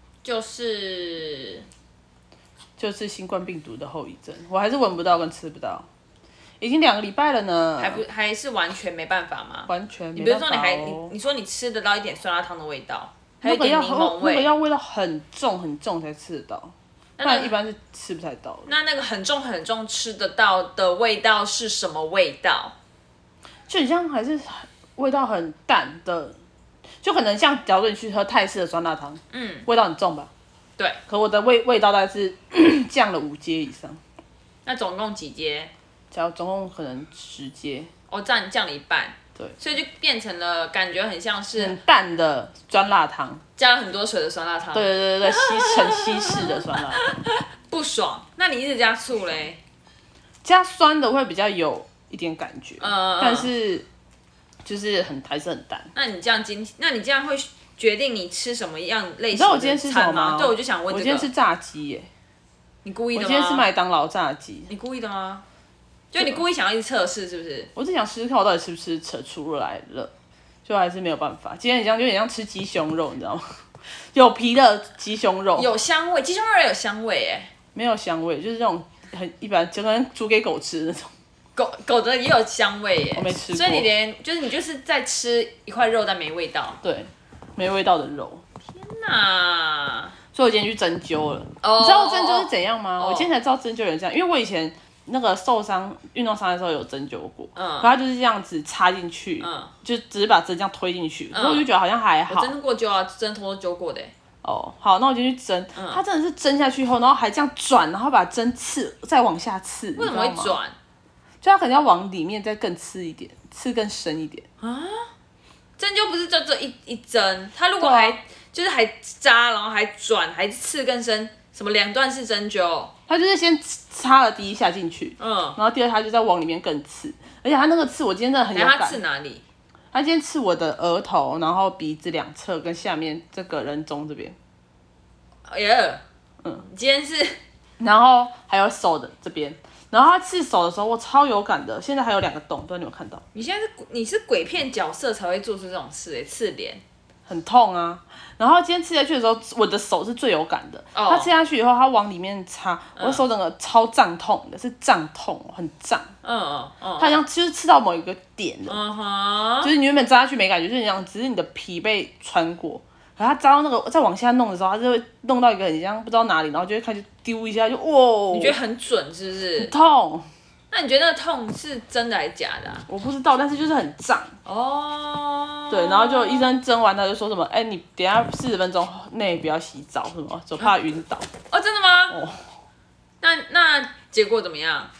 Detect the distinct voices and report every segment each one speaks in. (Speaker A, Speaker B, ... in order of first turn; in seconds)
Speaker A: 0.2-1.7, 7.8-14.5, 17.2-17.6, 18.7-22.7, 29.3-29.7, 34.6-35.7, 38.1-41.8, 43.6-49.6, 52.8-53.5, 55.9-61.3, 62.8-63.7, 64.7-65.4, 66.1-67.7, 75.5-77.5, 81.5-86.8, 88.7-90.2, 91.6-93.3, 97.5-97.9, 99.4-99.7, 101.3-101.7, 102.3-104.1, 105.7-106.0, 110.0-110.7, 114.6-115.1, 115.8-122.9, 125.2-125.6, 128.5-129.4, 135.5-137.4, 143.3-146.8, 150.9-151.3, 153.0-153.2, 156.2-157.2, 158.7-159.7, 168.3-169.7, 170.7-172.9, 174.4-176.5, 181.5-182.2, 183.2-184.9
Speaker B: 2.8-5.9, 6.6-8.0, 9.7-11.1, 13.4-18.7, 23.7-26.4, 27.0-30.3, 31.1-34.0, 36.1-37.9, 41.5-43.4, 44.7-47.0, 50.4-53.9, 54.6-55.9, 59.3-62.1, 63.1-64.7, 67.8-70.1, 70.6-73.6, 74.1-75.7, 77.7-81.1, 83.1-83.9, 86.8-88.4, 90.3-102.5, 104.4-110.6, 111.4-114.4, 117.8-118.2, 123.1-129.0, 129.9-134.3, 137.8-143.2, 147.3-156.1, 157.0-158.8, 159.6-168.6, 169.6-170.3, 172.9-174.3, 175.7-181.3, 182.1-182.4